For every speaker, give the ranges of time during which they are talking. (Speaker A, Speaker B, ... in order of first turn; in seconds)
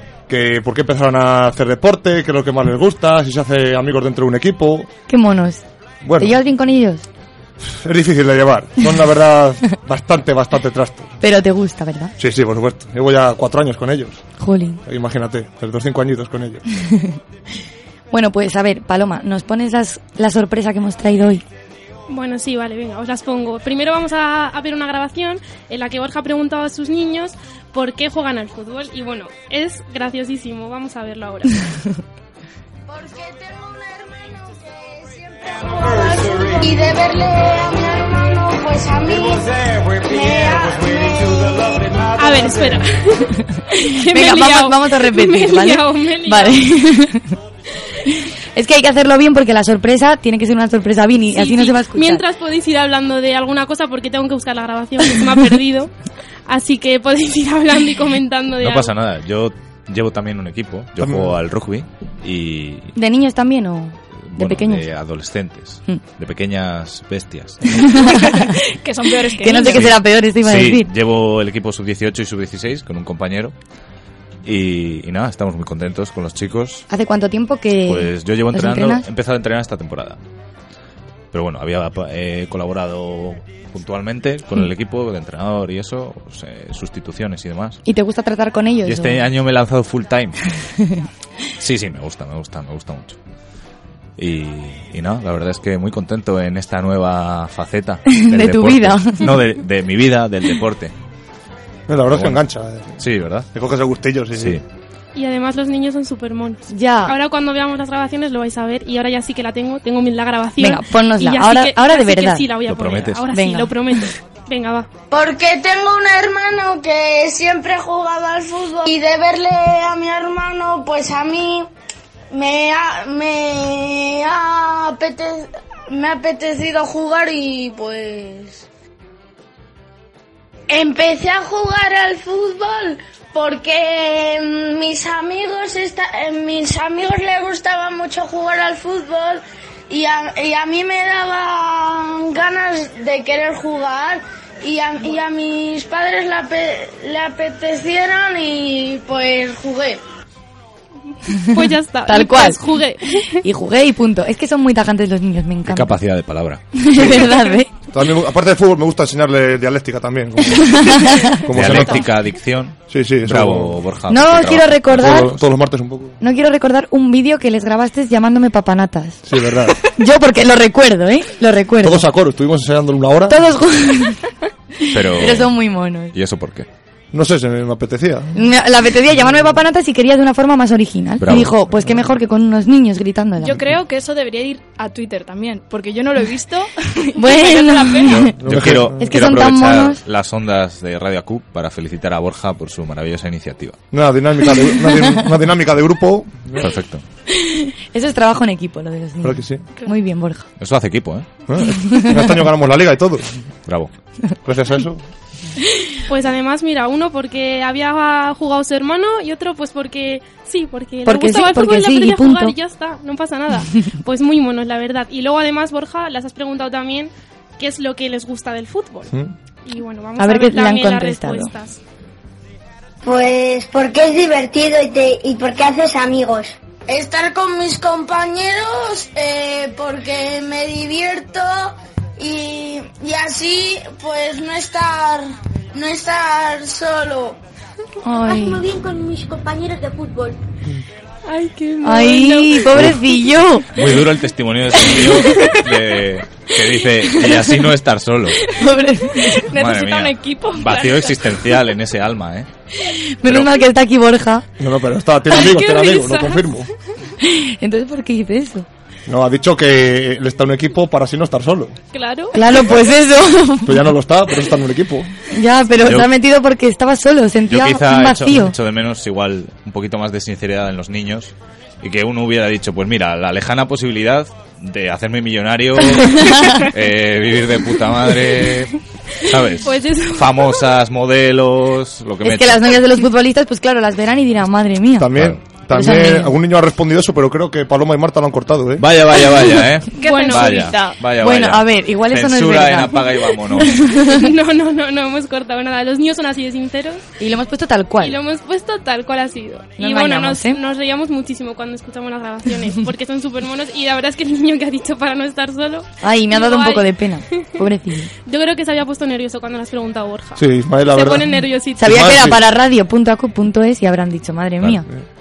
Speaker A: 0.3-4.9, 6.0-6.4, 7.7-11.2, 12.2-14.2, 14.9-16.6, 61.0-61.4, 101.9-103.0, 103.5-104.6, 157.9-162.1, 162.9-163.8, 164.9-166.2, 169.3-169.8, 171.8-173.4, 177.1-178.3, 188.4-189.1, 193.9-196.7, 199.2-199.7, 201.5-203.2, 204.5-205.0, 254.6-256.7, 259.1-261.8, 263.7-265.1, 285.0-288.9, 310.4-311.3, 311.8-312.4
Speaker B: 5.1-5.6, 6.2-7.1, 11.2-12.1, 14.4-14.8, 16.9-17.1, 18.1-21.4, 43.9-47.3, 48.5-52.2, 63.0-64.9, 67.7-68.5, 69.4-70.9, 76.9-79.0, 87.8-89.2, 98.1-99.3, 106.7-107.2, 110.6-112.5, 113.3-113.7, 151.6-152.6, 153.4-155.9, 156.8-157.7, 160.6-161.3, 164.1-165.3, 166.2-169.2, 169.9-172.1, 173.3-174.2, 174.9-176.2, 178.3-183.7, 187.2-188.3, 189.0-190.0, 194.8-195.2, 197.3-200.5, 201.8-202.4, 211.1-212.6, 220.2-221.5, 238.0-238.6, 241.8-243.7, 248.6-249.4, 253.2-254.5, 257.2-258.7, 262.3-263.9, 265.3-268.6, 275.9-276.6, 282.2-285.1, 285.7-286.3, 291.2-294.3, 297.2-298.2, 299.8-300.6, 306.0-308.1, 311.8-314.9
Speaker C: 22.1-31.6, 42.2-43.3, 43.8-46.6, 51.3-55.9, 56.5-58.9, 105.2-114.9, 151.5-153.4, 206.1-219.1, 219.7-221.8, 241.3-242.8, 255.3-256.7, 261.9-262.4, 279.6-280.5, 290.0-290.7, 294.1-297.0, 298.0-306.9, 308.3-312.1
Speaker D: 32.9-39.5, 40.0-41.9, 115.1-121.7, 122.3-128.7, 130.7-150.0, 226.9-237.4
Speaker E: 35.6-37.0, 39.0-42.9
Speaker F: 58.6-62.9, 64.2-68.1, 69.6-73.5, 74.4-76.9, 77.9-80.2, 81.3-87.8, 88.8-90.5, 91.6-93.2, 94.2-100.9, 102.1-102.4, 103.0-103.5, 104.4-104.6, 112.7-113.2, 155.7-156.6, 161.5-165.4, 174.9-175.6, 176.1-176.7, 181.2-181.6, 188.1-193.8, 196.6-197.0, 200.6-201.3, 243.8-248.4, 249.5-252.5, 253.3-253.5, 265.8-266.1, 267.5-282.8, 288.8-293.8
Speaker G: 68.8-69.9, 183.4-188.2, 249.3-251.6, 290.0-291.0
Speaker H: 223.0-226.6
Speaker I: 238.2-240.4